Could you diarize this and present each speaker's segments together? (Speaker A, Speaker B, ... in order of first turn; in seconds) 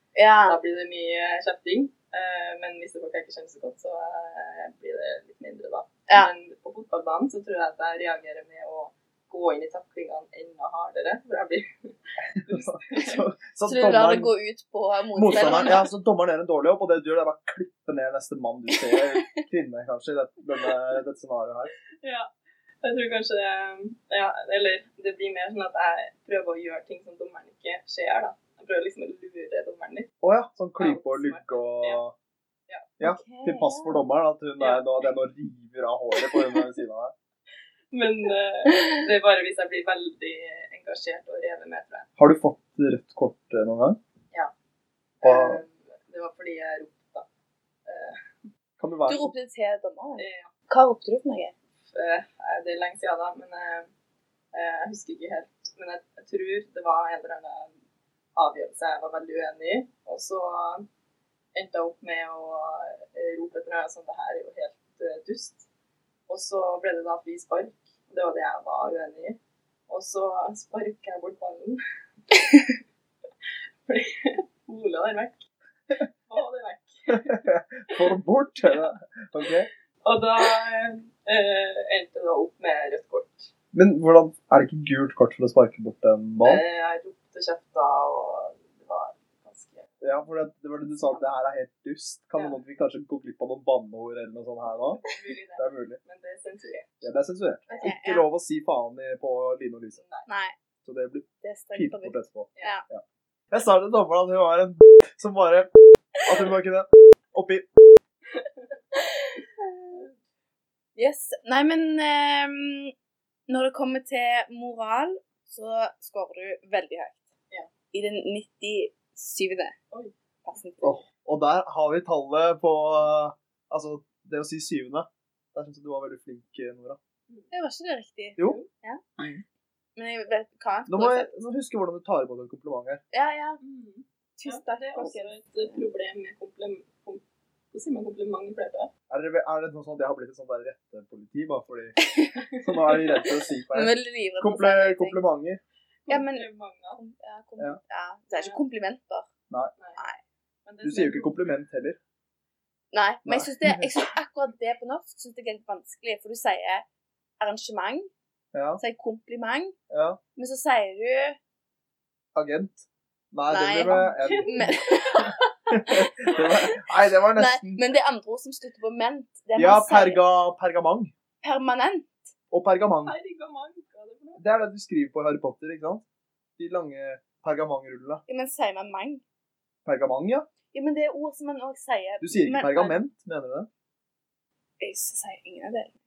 Speaker A: 0.2-0.6, 13.7-15.9, 18.8-19.4, 33.0-34.0, 49.1-51.5, 97.7-98.3, 100.3-100.5, 101.4-102.8, 109.0-110.1, 111.0-112.9, 113.5-117.3, 117.9-119.8, 120.5-121.0, 127.5-129.0, 130.0-131.3, 133.1-133.6, 134.4-135.8, 142.0-142.4, 143.7-145.2, 146.1-149.3, 152.9-156.8, 157.4-158.1, 158.8-159.8, 160.4-161.4, 163.5-166.8, 167.4-170.2, 171.4-172.2, 178.3-179.2, 180.7-183.0, 184.8-185.9
Speaker B: 0.5-13.2, 22.0-22.3, 22.8-30.1, 30.8-32.0, 34.6-35.0, 36.2-36.6, 37.9-42.1, 45.2-47.3, 47.9-48.2, 50.2-50.5, 51.8-53.9, 54.5-57.7, 58.4-60.9, 61.5-65.7, 66.3-71.8, 73.9-75.5, 76.3-78.1, 80.0-83.5, 86.4-90.0, 92.4-92.6, 94.7-97.0, 100.0-100.3, 108.3-108.7, 128.4-128.7, 133.6-138.9, 142.5-143.2, 146.1-147.0, 150.7-151.4, 163.9-165.3, 173.0-174.4
Speaker C: 12.4-14.3, 15.2-21.7, 30.2-32.1, 33.0-37.1, 42.2-44.0, 45.2-45.6, 48.8-49.3, 77.1-79.7, 83.7-86.6, 90.0-95.0, 95.6-96.0, 97.0-100.0, 100.8-107.7, 120.8-127.0, 129.2-129.4, 130.9-133.0, 139.1-142.0, 142.6-145.6, 150.8-152.0, 153.2-153.9, 158.5-158.8, 159.9-160.2, 162.3-164.8, 165.7-167.8, 169.6-171.1, 172.5-173.2, 174.4-176.0, 176.6-178.2, 179.8-180.5, 182.2-183.7